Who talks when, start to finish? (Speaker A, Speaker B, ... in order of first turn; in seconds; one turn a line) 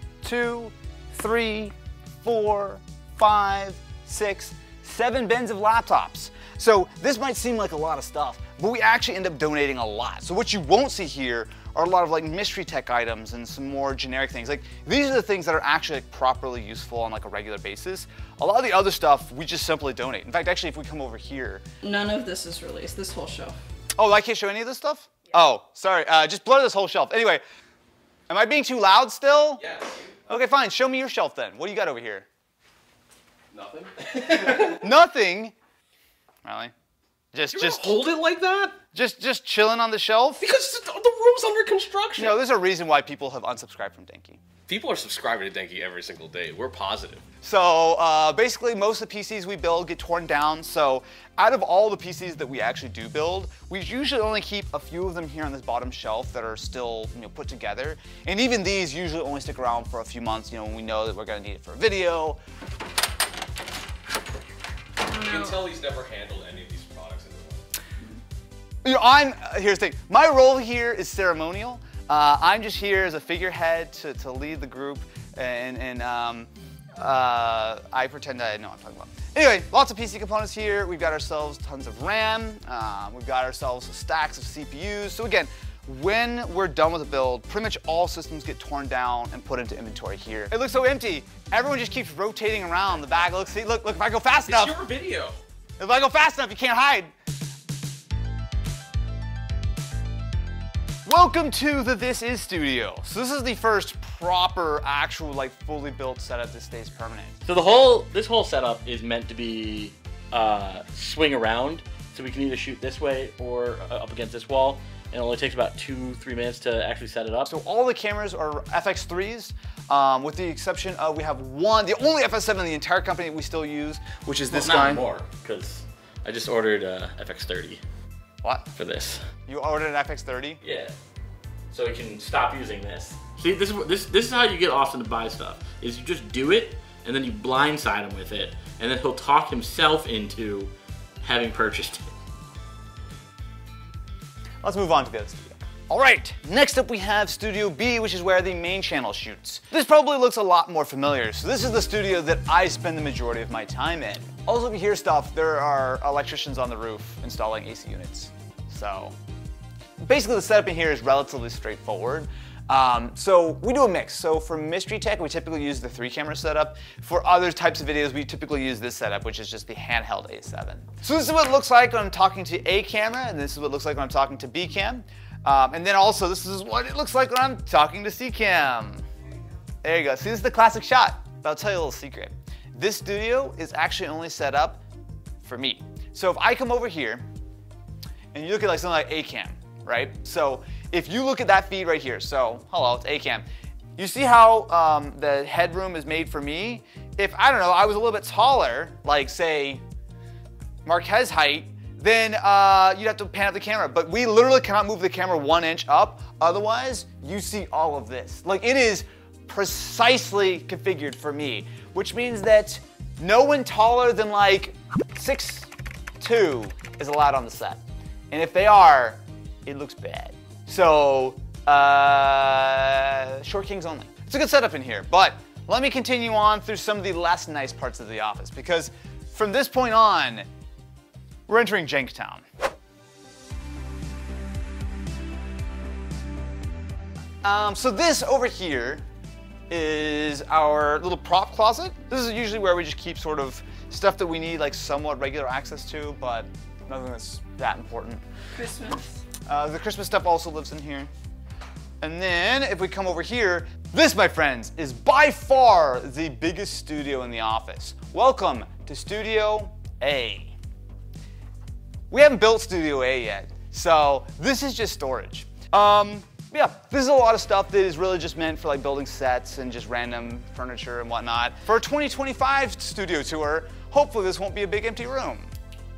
Speaker A: 0.2-21.6
Speaker B: 21.8-23.6
Speaker A: 23.9-27.4
Speaker A: 28.3-29.6
Speaker C: 29.6-30.2
Speaker A: 30.3-32.3
Speaker C: 33.5-34.8
Speaker A: 34.6-35.5
Speaker A: 36.4-36.7
Speaker A: 37.3-38.0
Speaker C: 37.5-38.8
Speaker A: 38.9-40.4
Speaker C: 40.4-42.4
Speaker A: 42.1-44.4
Speaker C: 44.7-47.2
Speaker A: 47.4-62.4
Speaker C: 65.0-67.6
Speaker A: 68.8-94.8
Speaker C: 94.5-95.4
Speaker A: 95.8-97.1
Speaker A: 101.0-107.3
Speaker D: 107.4-117.5
Speaker A: 117.5-125.0
Speaker D: 124.5-127.8
Speaker A: 128.4-128.7
Speaker D: 128.7-129.2
Speaker A: 129.5-130.6
Speaker D: 130.6-130.9
Speaker D: 131.7-140.7
Speaker D: 141.2-142.1
Speaker A: 144.6-159.1
Speaker A: 160.0-179.0
Speaker A: 179.8-184.8
Speaker A: 185.4-187.2
Speaker A: 188.3-193.4
Speaker A: 194.0-199.8
Speaker A: 200.8-215.7
Speaker A: 216.2-217.8
Speaker A: 218.3-230.4
Speaker A: 231.5-232.4
Speaker A: 237.4-239.0
Speaker A: 239.7-248.2
Speaker B: 248.6-249.1
Speaker A: 249.5-251.1
Speaker A: 252.0-260.5
Speaker A: 262.1-275.5